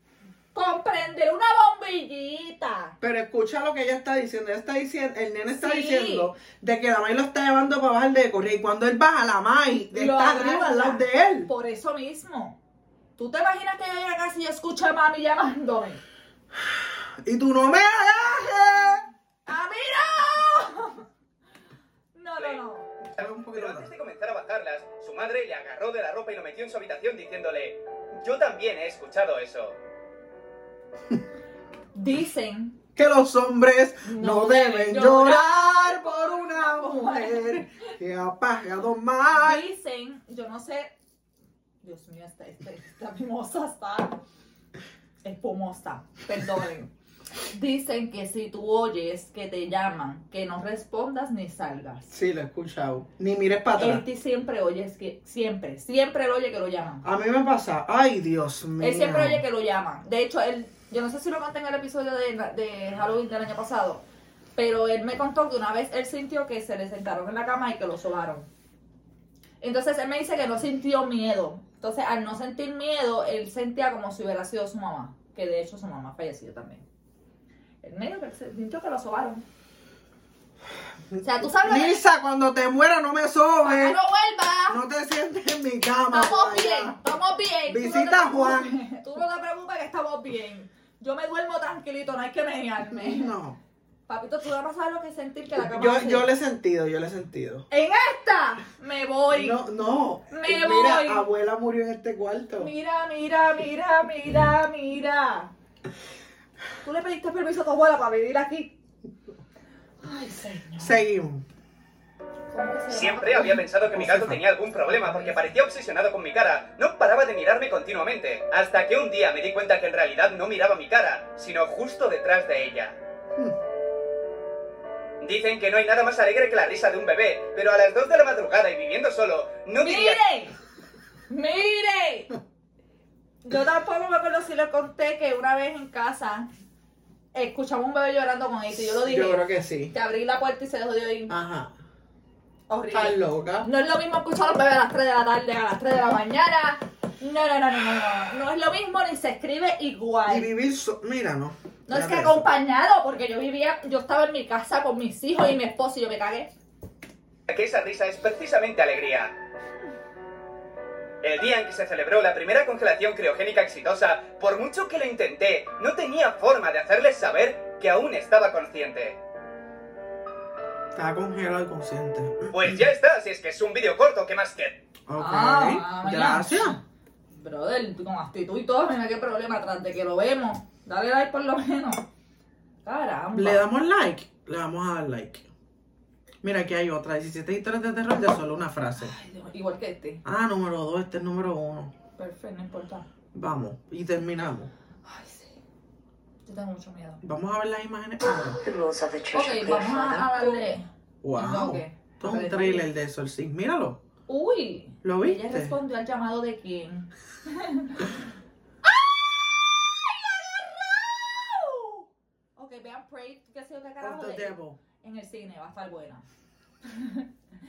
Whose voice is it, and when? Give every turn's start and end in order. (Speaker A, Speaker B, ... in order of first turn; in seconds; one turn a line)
Speaker A: 0.5-3.0
Speaker B: 3.0-11.5
Speaker A: 5.6-6.3
Speaker A: 9.9-12.6
Speaker A: 13.2-16.0
Speaker B: 16.6-19.0
Speaker A: 19.4-21.0
Speaker A: 22.1-22.9
Speaker C: 22.4-29.8
Speaker B: 23.1-23.9
Speaker A: 31.9-32.8
Speaker B: 33.0-39.7
Speaker A: 34.0-37.6
Speaker A: 39.3-40.9
Speaker A: 41.8-44.2
Speaker A: 45.2-46.9
Speaker A: 47.5-52.1
Speaker B: 52.1-54.0
Speaker A: 53.8-57.1
Speaker B: 57.0-59.4
Speaker A: 58.8-64.0
Speaker A: 64.5-68.5
Speaker A: 69.6-76.8
Speaker A: 77.8-79.4
Speaker B: 81.1-84.0
Speaker A: 81.2-82.0
Speaker A: 83.6-84.8
Speaker B: 84.7-87.0
Speaker A: 86.1-93.3
Speaker B: 87.7-88.8
Speaker B: 92.9-93.6
Speaker A: 94.1-96.3
Speaker B: 95.6-97.7
Speaker A: 97.7-99.6
Speaker B: 99.3-102.7
Speaker A: 100.3-101.2
Speaker A: 102.6-105.5
Speaker A: 106.8-108.7
Speaker A: 110.0-111.0
Speaker B: 110.8-111.4
Speaker A: 112.5-113.6
Speaker C: 112.9-123.0
Speaker B: 113.9-114.4
Speaker C: 125.2-130.2
Speaker A: 129.8-130.6
Speaker A: 131.3-132.3
Speaker A: 133.4-136.5
Speaker A: 137.3-141.4
Speaker B: 138.7-139.9
Speaker B: 141.3-141.7
Speaker A: 142.7-150.5
Speaker B: 142.9-143.7
Speaker B: 150.3-152.4
Speaker A: 151.9-156.5
Speaker C: 157.5-159.3
Speaker C: 161.2-169.2
Speaker B: 170.9-172.8
Speaker C: 172.5-174.8
Speaker B: 175.1-176.8
Speaker A: 175.2-176.8
Speaker A: 177.3-182.0
Speaker A: 182.8-183.6
Speaker B: 183.3-185.5
Speaker B: 186.4-189.2
Speaker A: 189.0-190.2
Speaker B: 190.2-191.9
Speaker A: 192.2-193.1
Speaker B: 193.3-194.7
Speaker A: 195.0-195.6
Speaker A: 196.4-197.2
Speaker B: 197.2-198.6
Speaker D: 198.5-200.6
Speaker A: 199.3-202.9
Speaker B: 201.2-204.0
Speaker A: 204.3-208.1
Speaker B: 205.0-205.8
Speaker A: 208.8-212.0
Speaker A: 212.6-216.2
Speaker B: 214.0-214.8
Speaker A: 216.9-217.3